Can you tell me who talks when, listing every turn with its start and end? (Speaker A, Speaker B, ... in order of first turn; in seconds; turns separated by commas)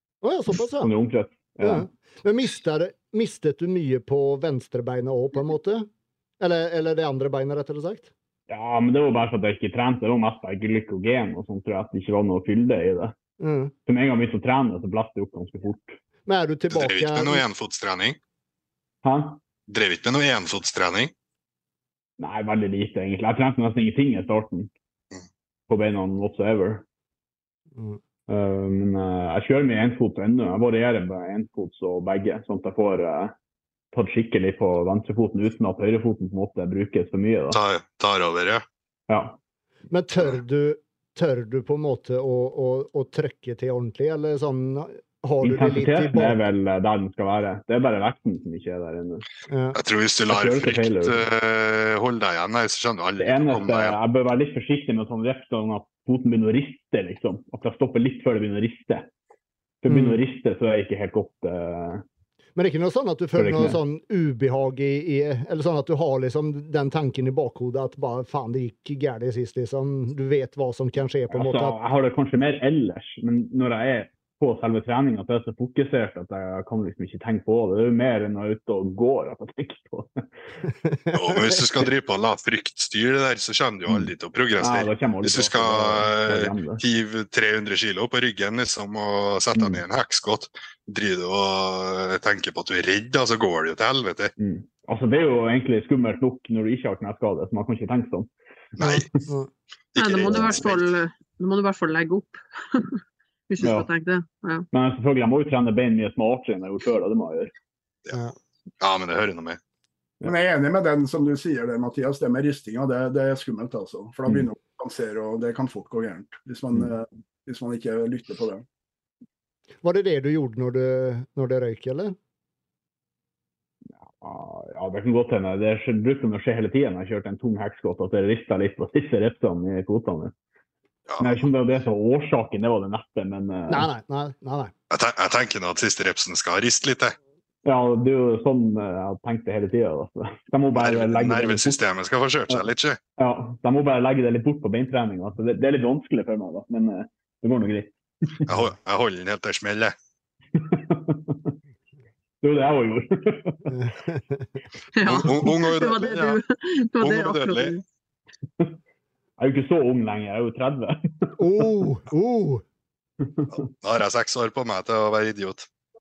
Speaker A: 0.2-0.9, Speaker B: 0.8-1.9, Speaker A: 1.6-5.9, Speaker A: 6.4-8.1, Speaker B: 8.5-13.1, Speaker A: 13.4-13.7, Speaker B: 13.8-16.0, Speaker A: 16.2-17.4, Speaker C: 16.7-18.2, Speaker B: 19.0-19.4, Speaker C: 19.7-21.1, Speaker B: 22.2-24.7, Speaker B: 25.7-26.8, Speaker A: 27.7-28.0, Speaker B: 28.3-33.3, Speaker B: 33.9-37.6, Speaker C: 37.5-38.6, Speaker B: 39.1-39.4, Speaker A: 39.9-46.4, Speaker B: 45.4-49.2, Speaker A: 49.5-49.8, Speaker C: 49.7-54.0, Speaker B: 50.3-51.2, Speaker B: 53.2-59.1, Speaker B: 59.8-62.0, Speaker A: 59.9-60.2, Speaker A: 62.5-71.8, Speaker B: 63.4-63.8, Speaker B: 71.3-80.2, Speaker A: 80.8-81.8, Speaker C: 81.1-94.3, Speaker B: 84.6-86.8, Speaker B: 89.5-89.8, Speaker B: 94.4-99.2, Speaker C: 98.8-99.1, Speaker C: 99.9-100.9, Speaker D: 100.0-104.7, Speaker B: 100.2-100.6, Speaker B: 103.6-103.9, Speaker B: 104.7-107.5, Speaker C: 108.8-109.6, Speaker E: 110.2-118.6, Speaker A: 119.8-122.2, Speaker B: 123.9-130.3, Speaker C: 131.1-131.4, Speaker B: 131.2-133.9, Speaker A: 133.7-134.7, Speaker C: 134.9-137.2, Speaker B: 137.6-141.8, Speaker C: 140.8-143.0, Speaker B: 143.2-148.5, Speaker C: 148.5-149.9, Speaker B: 150.6-151.5, Speaker B: 152.4-153.7, Speaker A: 153.7-154.6, Speaker D: 154.9-157.8, Speaker C: 155.0-156.4, Speaker C: 157.0-157.8, Speaker B: 159.4-161.3, Speaker A: 161.4-162.6, Speaker B: 163.2-163.5, Speaker C: 163.6-165.7